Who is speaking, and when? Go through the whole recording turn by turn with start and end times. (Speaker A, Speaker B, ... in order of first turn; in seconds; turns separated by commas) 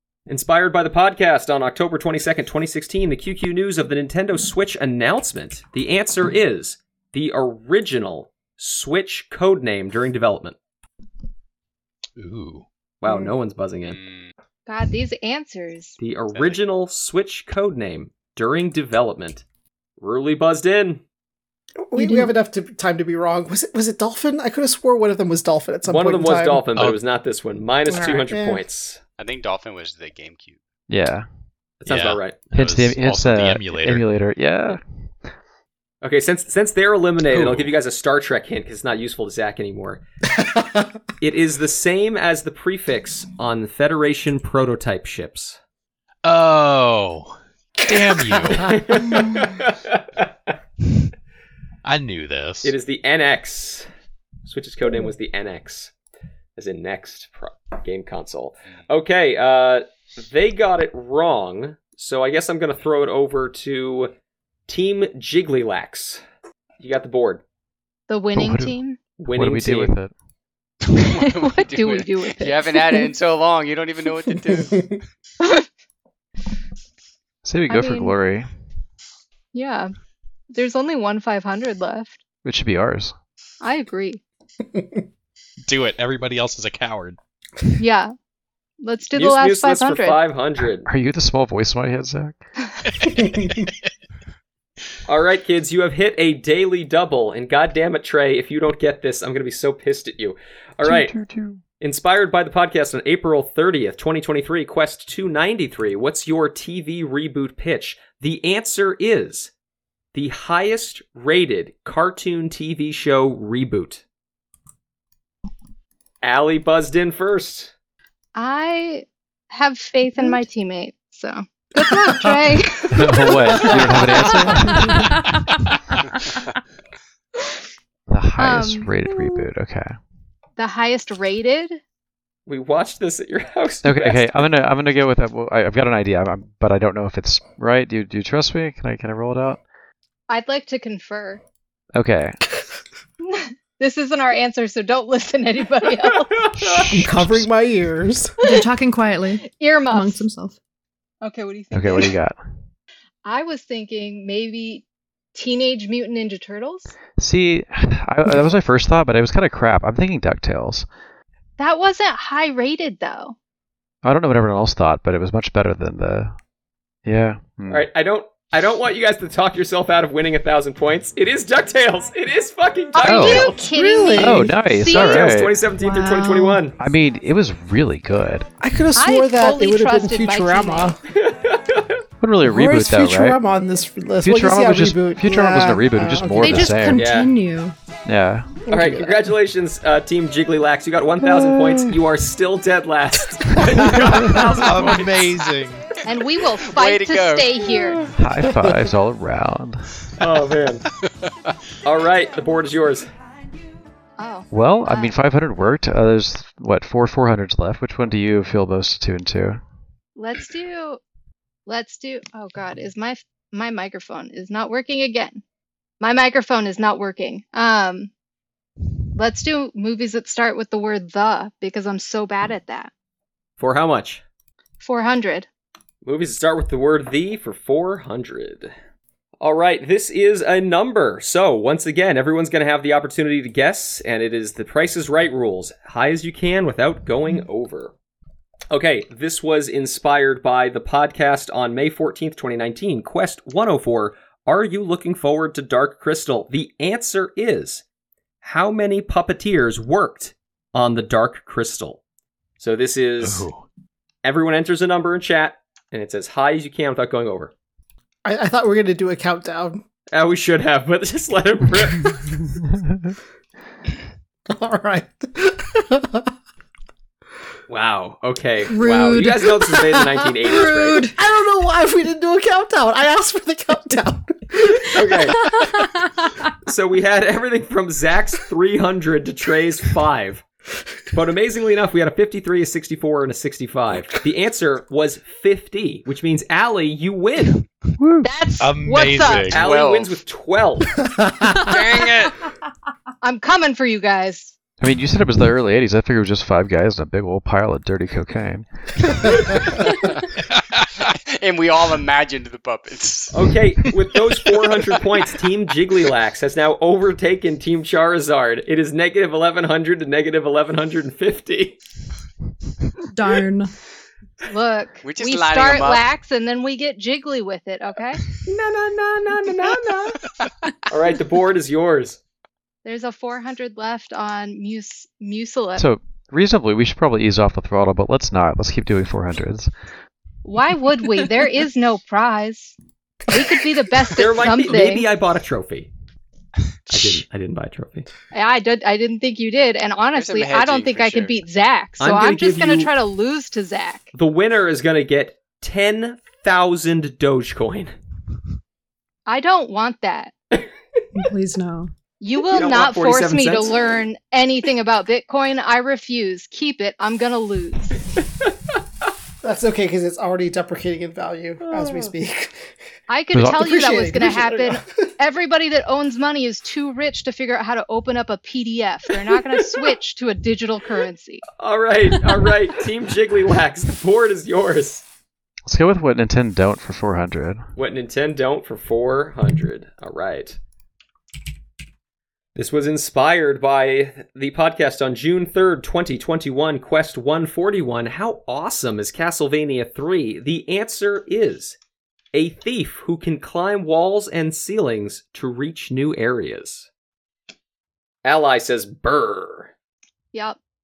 Speaker A: 0.3-10.6, Speaker B: 12.2-12.7, Speaker A: 13.0-14.0, Speaker C: 13.1-13.3, Speaker D: 13.9-14.3, Speaker E: 14.7-16.0, Speaker A: 16.0-19.4, Speaker A: 20.0-21.0, Speaker C: 21.9-26.7, Speaker F: 22.0-22.3, Speaker A: 25.9-29.0, Speaker B: 26.7-27.0, Speaker C: 27.9-28.6, Speaker D: 29.2-30.6, Speaker G: 30.9-31.3, Speaker A: 31.8-32.5, Speaker B: 31.9-34.1, Speaker G: 32.5-34.8, Speaker A: 36.0-40.0, Speaker B: 37.3-37.7, Speaker C: 40.3-40.9, Speaker A: 41.2-45.6, Speaker B: 46.2-49.0, Speaker C: 47.9-48.5, Speaker A: 48.5-50.3, Speaker B: 51.8-52.7, Speaker A: 52.6-53.9, Speaker A: 54.5-55.9, Speaker A: 56.6-64.1, Speaker A: 64.7-66.2, Speaker A: 66.8-67.4, Speaker E: 68.1-69.0, Speaker G: 68.3-68.8, Speaker A: 69.2-70.0, Speaker G: 69.3-70.1, Speaker D: 70.9-75.0, Speaker E: 71.2-73.0, Speaker E: 75.4-75.7, Speaker G: 77.5-78.5, Speaker E: 77.7-78.2, Speaker E: 79.5-79.9, Speaker E: 80.5-82.2, Speaker G: 82.4-83.1, Speaker E: 83.6-84.2, Speaker C: 84.7-85.0, Speaker B: 85.7-87.2, Speaker E: 87.8-88.1, Speaker E: 88.8-90.2, Speaker A: 89.1-90.9, Speaker G: 90.9-92.4, Speaker B: 93.0-93.7, Speaker C: 93.3-93.6, Speaker A: 95.1-101.1, Speaker G: 100.8-101.6, Speaker A: 101.8-109.5, Speaker A: 110.1-114.0, Speaker A: 116.2-117.7, Speaker E: 118.4-124.5, Speaker G: 122.9-125.5, Speaker C: 123.5-124.5, Speaker F: 124.8-125.2, Speaker G: 128.1-130.0, Speaker E: 128.4-128.9, Speaker E: 130.6-131.8, Speaker A: 132.5-134.2, Speaker G: 133.8-139.6, Speaker E: 140.3-141.4, Speaker G: 141.9-142.4, Speaker E: 143.2-146.5, Speaker A: 146.4-147.0, Speaker C: 146.8-148.3, Speaker F: 148.4-150.6, Speaker E: 149.4-150.2, Speaker E: 151.2-152.2, Speaker G: 151.7-152.4, Speaker E: 153.2-156.9, Speaker G: 157.2-160.9, Speaker E: 161.6-163.3, Speaker G: 164.0-166.3, Speaker G: 167.1-167.9, Speaker A: 167.7-173.6, Speaker E: 172.9-175.4, Speaker G: 173.0-173.5, Speaker C: 173.4-174.6, Speaker G: 174.2-175.5, Speaker A: 174.9-176.8, Speaker F: 175.8-176.6, Speaker G: 176.8-178.5, Speaker C: 178.6-181.0, Speaker E: 178.9-181.0, Speaker A: 181.1-182.0, Speaker G: 182.2-183.4, Speaker C: 182.4-186.7, Speaker G: 184.2-187.1, Speaker F: 186.4-187.8, Speaker A: 186.9-187.3, Speaker G: 188.1-188.8, Speaker A: 188.7-195.3, Speaker C: 188.8-189.1, Speaker B: 194.4-195.9, Speaker E: 196.1-198.1, Speaker D: 196.6-197.7, Speaker G: 198.1-200.1, Speaker A: 200.2-200.9, Speaker D: 201.0-201.6, Speaker A: 201.8-203.1, Speaker E: 204.2-205.2, Speaker G: 204.5-209.6, Speaker E: 210.2-211.0, Speaker E: 211.7-215.4, Speaker E: 216.0-218.1, Speaker E: 219.1-222.9, Speaker A: 223.6-224.2, Speaker E: 224.8-225.5, Speaker A: 226.0-228.7, Speaker A: 229.4-237.9, Speaker A: 238.7-247.8, Speaker A: 248.4-252.0, Speaker A: 252.6-253.5, Speaker B: 253.2-253.7, Speaker A: 254.2-257.5, Speaker C: 258.2-259.8, Speaker A: 260.1-262.4, Speaker C: 264.5-266.3, Speaker A: 267.7-271.1, Speaker F: 268.7-271.2, Speaker C: 271.1-275.3, Speaker A: 274.9-275.5, Speaker F: 275.4-276.4, Speaker A: 276.6-280.4, Speaker A: 281.1-287.6, Speaker G: 288.0-288.3, Speaker E: 288.2-289.6, Speaker B: 288.6-289.7, Speaker A: 289.5-291.1, Speaker D: 289.5-290.2, Speaker D: 291.6-292.3, Speaker E: 293.2-294.6, Speaker G: 294.8-299.5, Speaker D: 301.1-303.5, Speaker A: 303.3-311.8, Speaker F: 313.1-313.7, Speaker E: 314.4-318.2, Speaker D: 315.0-316.0, Speaker A: 318.4-320.4, Speaker A: 320.9-322.2, Speaker E: 322.8-325.9, Speaker G: 325.8-329.7, Speaker E: 330.4-332.8, Speaker E: 333.3-335.1, Speaker A: 334.1-335.9, Speaker A: 336.9-338.1, Speaker E: 338.3-344.1, Speaker D: 340.1-341.4, Speaker A: 342.0-342.9, Speaker A: 344.1-347.9, Speaker E: 349.3-350.3, Speaker F: 351.1-351.9, Speaker E: 352.2-358.0, Speaker A: 352.5-353.8, Speaker C: 359.4-362.7, Speaker A: 361.6-362.1, Speaker E: 363.1-371.4, Speaker G: 363.3-363.6, Speaker C: 363.4-365.0, Speaker A: 371.6-375.0, Speaker G: 375.7-377.6, Speaker A: 377.8-380.6, Speaker A: 382.6-391.8, Speaker A: 392.3-396.9, Speaker A: 398.2-399.7